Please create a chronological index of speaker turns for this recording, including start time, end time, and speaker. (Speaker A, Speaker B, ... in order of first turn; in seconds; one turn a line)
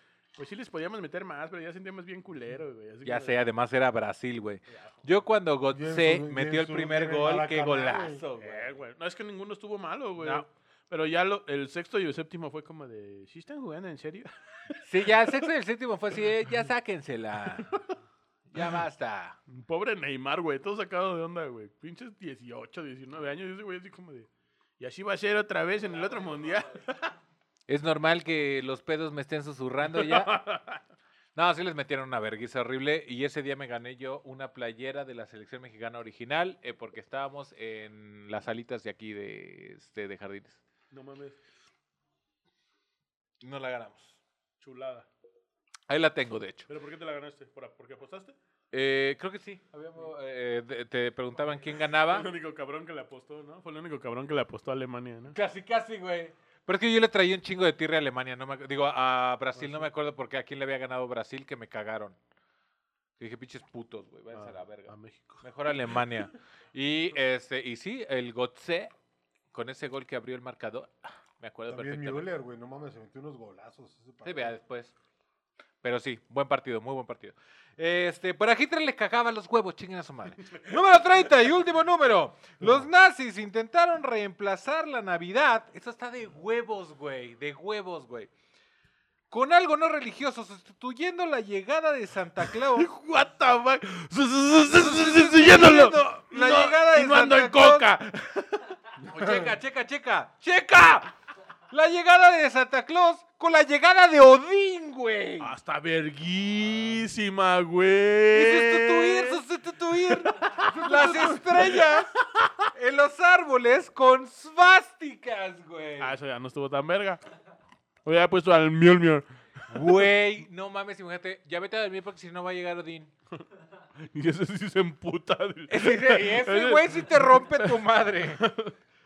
Speaker A: 0.3-3.4
Speaker B: 3.0-8.7
Speaker C: 5.7-8.2
Speaker A: 8.3-15.4
Speaker B: 10.2-10.5
Speaker B: 14.8-17.7
Speaker B: 18.5-19.4
Speaker A: 19.5-24.3
Speaker A: 24.8-27.1
Speaker B: 27.7-30.4
Speaker A: 29.9-30.8
Speaker B: 31.3-40.6
Speaker A: 40.9-41.4
Speaker B: 43.4-44.2
Speaker A: 44.6-45.1
Speaker B: 45.9-46.7
Speaker A: 46.7-48.3
Speaker B: 48.7-52.3
Speaker A: 52.1-55.4
Speaker B: 55.3-62.2
Speaker A: 59.6-59.9
Speaker B: 63.2-68.9
Speaker A: 64.3-65.4
Speaker B: 69.5-72.3
Speaker C: 71.7-74.5
Speaker B: 74.2-74.9
Speaker B: 75.8-88.3
Speaker C: 82.6-82.9
Speaker B: 89.3-92.9
Speaker A: 92.6-98.7
Speaker B: 94.7-98.0
Speaker B: 99.0-101.1
Speaker C: 99.2-99.5
Speaker B: 101.7-105.5
Speaker A: 105.4-109.4
Speaker B: 108.3-112.1
Speaker A: 110.1-111.9
Speaker C: 110.7-111.4
Speaker B: 112.7-116.1
Speaker A: 116.0-117.2
Speaker A: 118.0-119.2
Speaker B: 119.7-123.1
Speaker A: 124.0-127.8
Speaker B: 125.7-128.5
Speaker A: 128.4-128.7